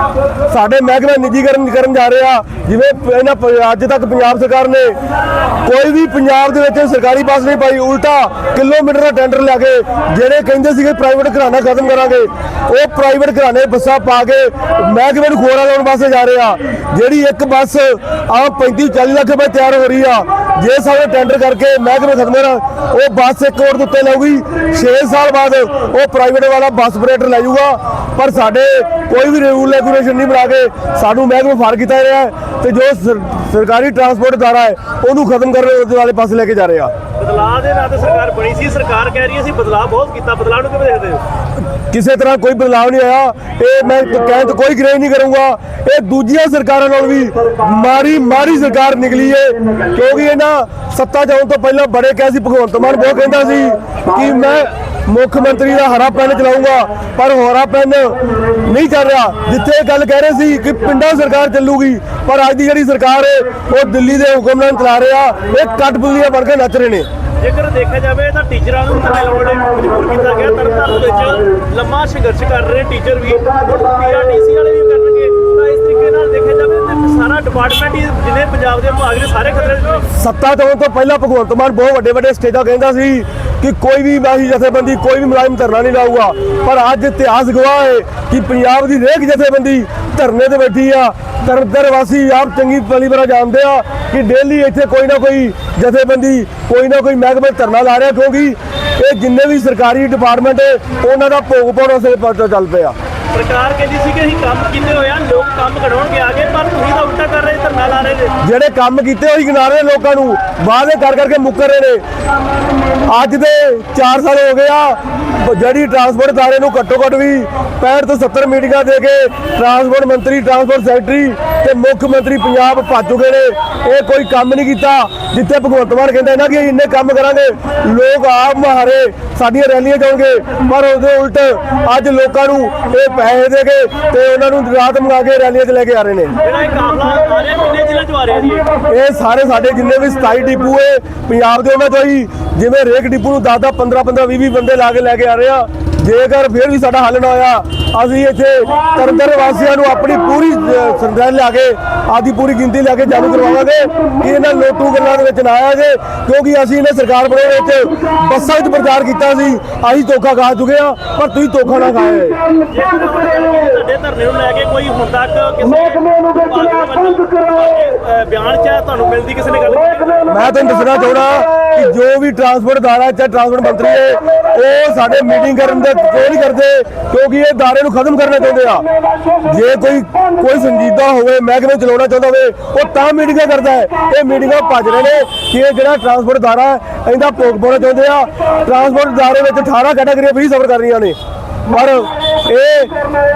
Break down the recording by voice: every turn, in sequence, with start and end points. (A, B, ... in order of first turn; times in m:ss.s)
0:00.5-0:05.0 A
0:05.6-0:36.9 A
0:37.2-0:41.2 B
0:41.9-1:07.1 A
1:07.4-1:20.1 B
1:20.1-1:42.9 A
1:43.3-1:48.3 B
1:48.4-1:52.0 A
1:53.1-2:16.4 A
2:16.4-2:18.7 B
2:18.9-2:42.4 A
2:42.6-2:50.3 B
2:50.2-2:58.8 A
2:59.4-3:11.2 A
3:11.7-3:12.9 A